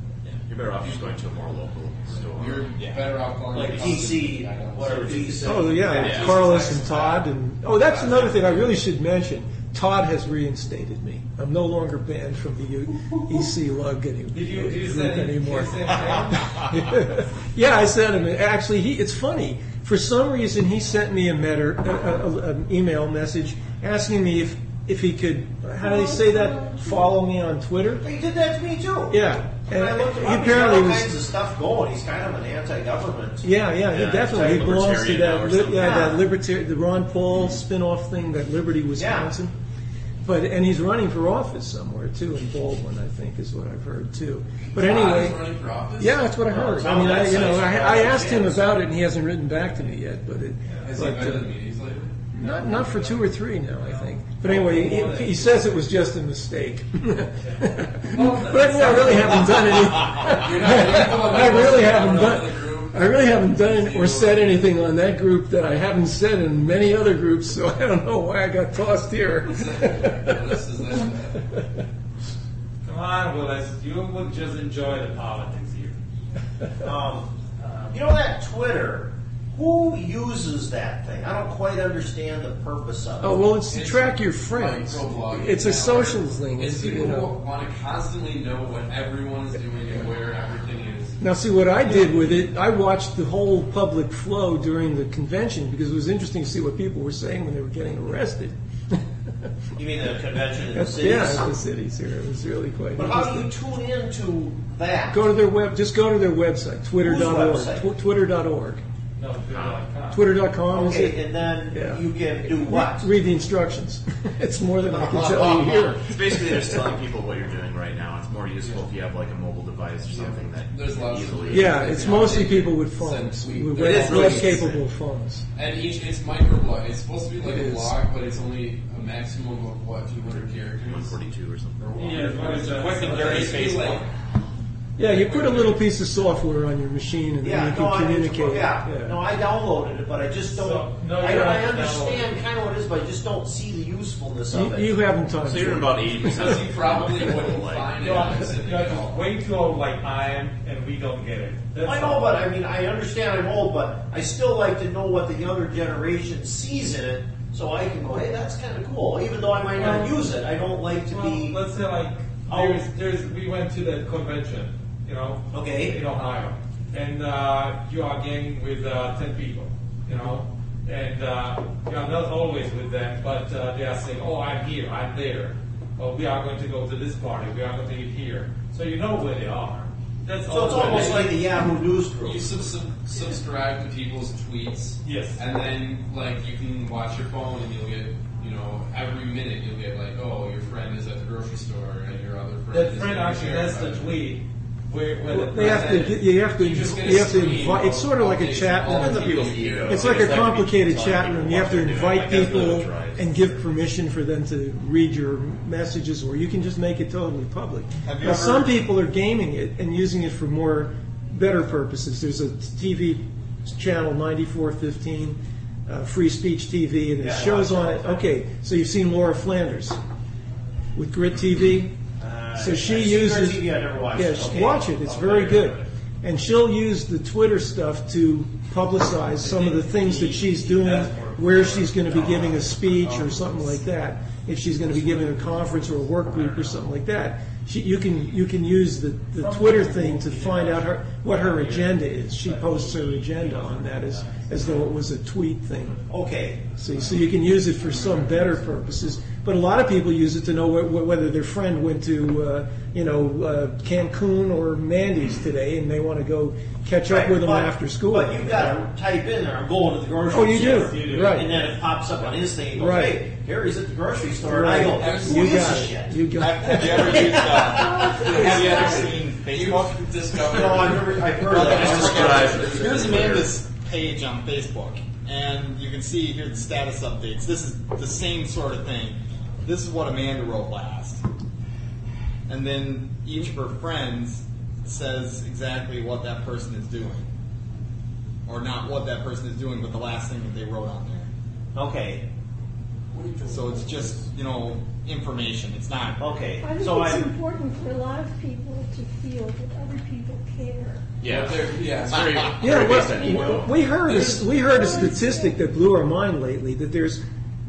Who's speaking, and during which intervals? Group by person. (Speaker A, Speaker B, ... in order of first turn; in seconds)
Speaker A: 0.2-2.8, 6.0-6.7, 33.9-36.1, 109.5-109.9, 114.9-122.4, 130.8-132.1, 145.4-148.5, 198.9-203.6, 271.7-273.6, 301.2-303.8
Speaker B: 0.8-1.3, 2.1-7.1, 7.8-8.7, 44.7-46.2, 50.8-52.2, 60.0-64.7, 69.5-71.6, 83.7-91.2, 120.1-124.8, 125.5-131.2, 131.8-134.1, 135.0-135.9, 146.2-149.2, 180.7-181.3, 182.2-194.2, 195.6-200.6, 247.8-248.5, 264.9-265.6, 268.1-273.5, 293.1-294.2, 301.2-302.9
Speaker C: 2.7-3.1, 132.2-134.1, 208.0-208.8, 266.3-270.8, 271.4-281.2, 282.5-287.3, 288.5-291.3, 293.5-296.2
Speaker D: 3.5-7.1, 28.0-33.5, 34.3-34.8, 39.0-39.3, 46.5-48.7, 76.8-77.3, 77.9-83.5, 99.8-101.5, 103.0-105.2, 107.0-107.9, 110.7-113.1, 123.8-124.7, 137.4-144.9, 151.8-161.6, 162.5-162.8, 165.5-166.0, 180.5-182.7, 217.2-218.3, 222.2-225.0, 246.1-246.7, 257.1-268.2, 270.4-273.3, 291.8-292.2, 296.2-297.3
Speaker E: 5.4-28.1, 29.1-31.1, 33.4-39.5, 40.2-45.5, 46.0-51.5, 52.3-71.8, 83.2-87.3, 91.2-99.5, 100.7-103.5, 105.1-108.8, 110.1-116.8, 121.5-125.5, 127.4-128.0, 135.0-139.2, 144.5-146.7, 170.1-170.4, 195.3-220.0, 220.9-221.9, 222.6-246.0, 246.8-258.8, 260.3-261.7, 262.7-263.2, 264.4-267.4, 302.6-307.2
Speaker F: 14.3-16.6, 52.4-53.2, 53.8-55.6, 57.4-59.8, 72.8-76.0, 77.6-78.0, 109.2-110.3, 132.0-133.8, 140.5-142.3, 148.0-152.3, 159.7-160.3, 161.1-181.3, 185.0-185.4, 192.7-196.2, 229.4-231.4, 239.4-244.5
Speaker G: 25.8-27.2, 267.7-269.0, 296.6-301.1, 303.2-303.6, 304.1-305.6